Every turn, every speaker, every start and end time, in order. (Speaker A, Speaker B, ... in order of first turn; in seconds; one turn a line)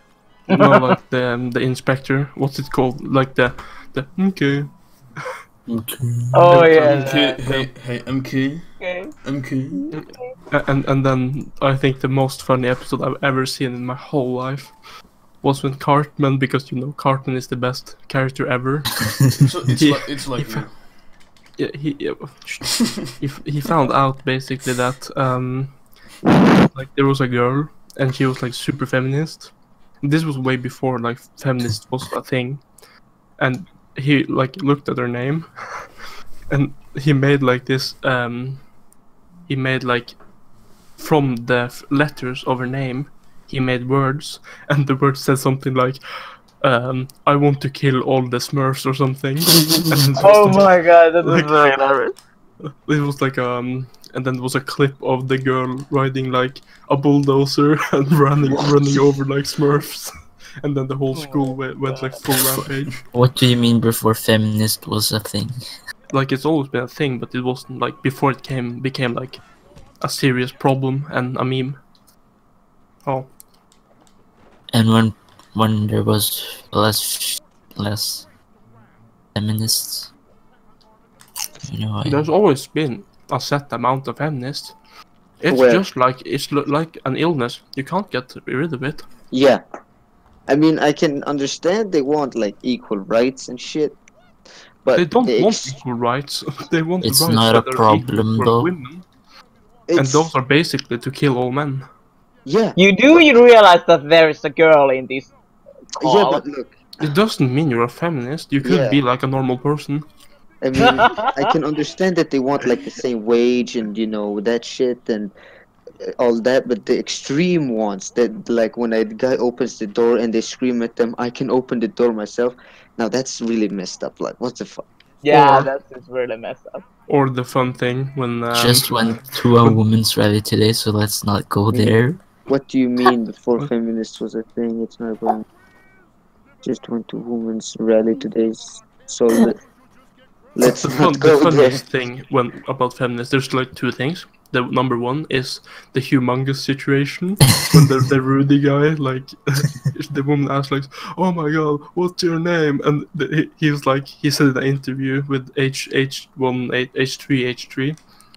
Speaker A: 0.5-1.0
Speaker B: 0.5-4.8
Speaker C: 5.7-6.4
Speaker A: 6.3-7.4
Speaker B: 6.5-7.6
Speaker D: 6.7-10.0
Speaker A: 8.8-9.1
Speaker A: 9.8-10.4
Speaker B: 9.9-14.8
Speaker B: 15.4-20.8
Speaker D: 19.4-20.9
Speaker B: 21.6-26.0
Speaker B: 26.6-32.7
Speaker B: 33.4-35.9
Speaker B: 36.5-38.7
Speaker B: 39.5-40.2
Speaker B: 41.0-51.5
Speaker A: 50.1-52.1
Speaker B: 52.9-63.0
Speaker E: 58.5-59.1
Speaker A: 61.1-62.2
Speaker C: 63.1-65.6
Speaker B: 66.1-69.5
Speaker B: 70.0-71.8
Speaker B: 73.0-73.3
Speaker C: 74.7-78.3
Speaker C: 79.3-80.1
Speaker C: 81.7-82.3
Speaker B: 82.0-84.8
Speaker B: 85.4-89.1
Speaker E: 85.5-85.8
Speaker E: 89.3-89.6
Speaker E: 90.5-94.0
Speaker E: 94.8-95.8
Speaker B: 95.0-99.1
Speaker C: 97.0-98.7
Speaker E: 99.9-100.3
Speaker B: 100.0-101.9
Speaker E: 102.5-102.8
Speaker A: 102.8-105.3
Speaker A: 105.9-106.4
Speaker E: 106.0-107.1
Speaker B: 107.0-110.1
Speaker E: 108.6-109.0
Speaker E: 110.6-115.3
Speaker A: 110.8-111.5
Speaker E: 116.2-125.7
Speaker A: 125.2-126.8
Speaker B: 127.1-129.8
Speaker C: 128.5-132.2
Speaker E: 131.7-135.4
Speaker E: 136.6-139.6
Speaker E: 140.6-141.8
Speaker B: 140.6-158.0